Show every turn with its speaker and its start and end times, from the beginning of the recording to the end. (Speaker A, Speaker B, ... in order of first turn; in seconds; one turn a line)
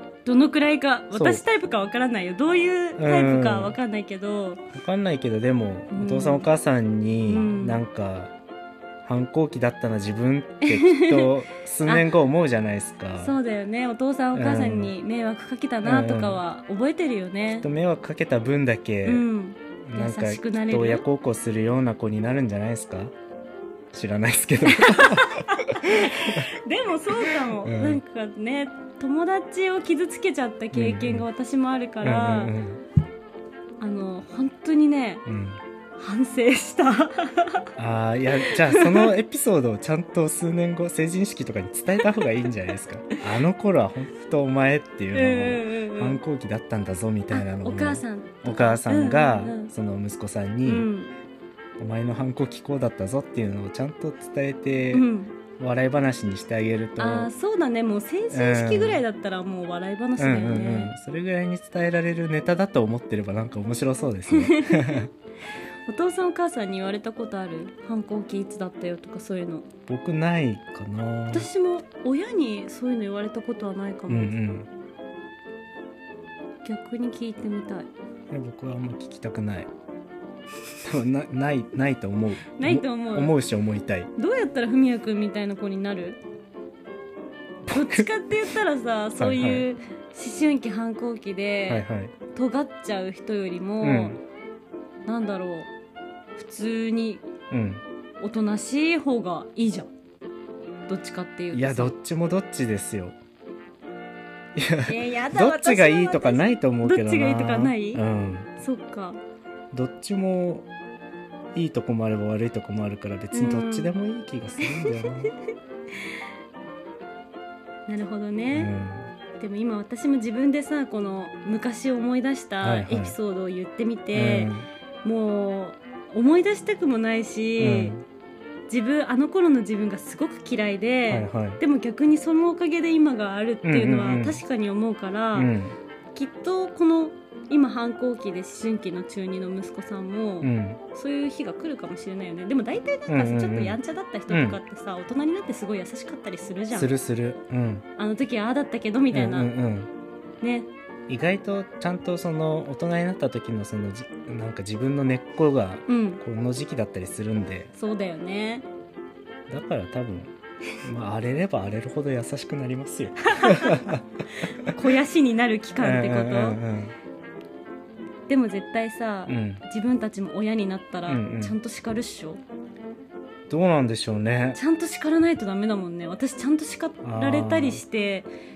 Speaker A: 0.2-4.6
Speaker B: 1.1-1.4
Speaker B: 3.0-3.8
Speaker B: 4.7-8.3
Speaker A: 5.9-6.5
Speaker A: 7.3-7.8
Speaker B: 9.0-13.4
Speaker A: 10.6-11.3
Speaker A: 11.8-12.1
Speaker A: 13.2-17.7
Speaker B: 14.3-14.9
Speaker B: 15.8-16.4
Speaker B: 17.5-19.3
Speaker A: 19.0-21.0
Speaker B: 19.9-23.1
Speaker B: 23.9-26.5
Speaker A: 24.8-32.6
Speaker B: 27.4-28.0
Speaker B: 30.7-31.2
Speaker B: 32.0-32.8
Speaker A: 33.8-35.2
Speaker B: 35.2-35.6
Speaker A: 36.0-37.7
Speaker B: 37.8-50.9
Speaker A: 38.4-39.1
Speaker A: 45.1-46.2
Speaker A: 47.3-49.7
Speaker A: 50.6-51.1
Speaker B: 51.8-55.1
Speaker A: 54.9-55.3
Speaker B: 55.6-57.3
Speaker A: 57.0-60.9
Speaker B: 58.3-59.0
Speaker B: 60.2-65.1
Speaker A: 64.3-65.0
Speaker A: 65.9-69.7
Speaker B: 69.9-71.5
Speaker A: 71.3-74.3
Speaker B: 74.1-74.7
Speaker A: 76.6-77.9
Speaker B: 78.3-79.7
Speaker B: 80.8-84.1
Speaker A: 82.5-83.3
Speaker A: 84.1-86.2
Speaker B: 87.7-88.1
Speaker A: 87.7-94.2
Speaker B: 89.2-89.7
Speaker B: 91.7-92.1
Speaker B: 93.8-94.2
Speaker A: 95.0-95.7
Speaker A: 96.3-97.3
Speaker B: 97.5-97.8
Speaker A: 98.2-99.9
Speaker A: 100.9-101.9
Speaker B: 101.5-103.2
Speaker B: 104.5-108.5
Speaker A: 104.8-108.0
Speaker A: 108.6-109.2
Speaker B: 109.7-110.7
Speaker B: 111.5-115.3
Speaker A: 113.3-113.9
Speaker A: 114.6-115.3
Speaker A: 117.9-118.7
Speaker B: 118.5-119.1
Speaker A: 119.3-124.5
Speaker B: 122.6-123.2
Speaker B: 124.1-124.7
Speaker A: 125.0-128.0
Speaker B: 127.6-128.0
Speaker A: 128.7-135.5
Speaker B: 131.1-131.6
Speaker B: 133.6-134.4
Speaker B: 135.3-135.8
Speaker A: 136.1-146.9
Speaker B: 140.4-140.8
Speaker B: 143.1-144.6
Speaker B: 146.7-147.8
Speaker A: 148.0-149.5
Speaker B: 149.1-149.9
Speaker A: 150.4-150.7
Speaker B: 151.1-157.7
Speaker A: 155.9-156.2
Speaker A: 157.7-158.7
Speaker B: 159.5-164.0
Speaker A: 163.3-163.9
Speaker A: 164.6-166.6
Speaker B: 165.8-166.9
Speaker A: 168.3-172.4
Speaker B: 169.3-169.6
Speaker B: 171.1-171.6
Speaker B: 173.5-174.6
Speaker A: 174.5-178.3
Speaker B: 177.0-177.8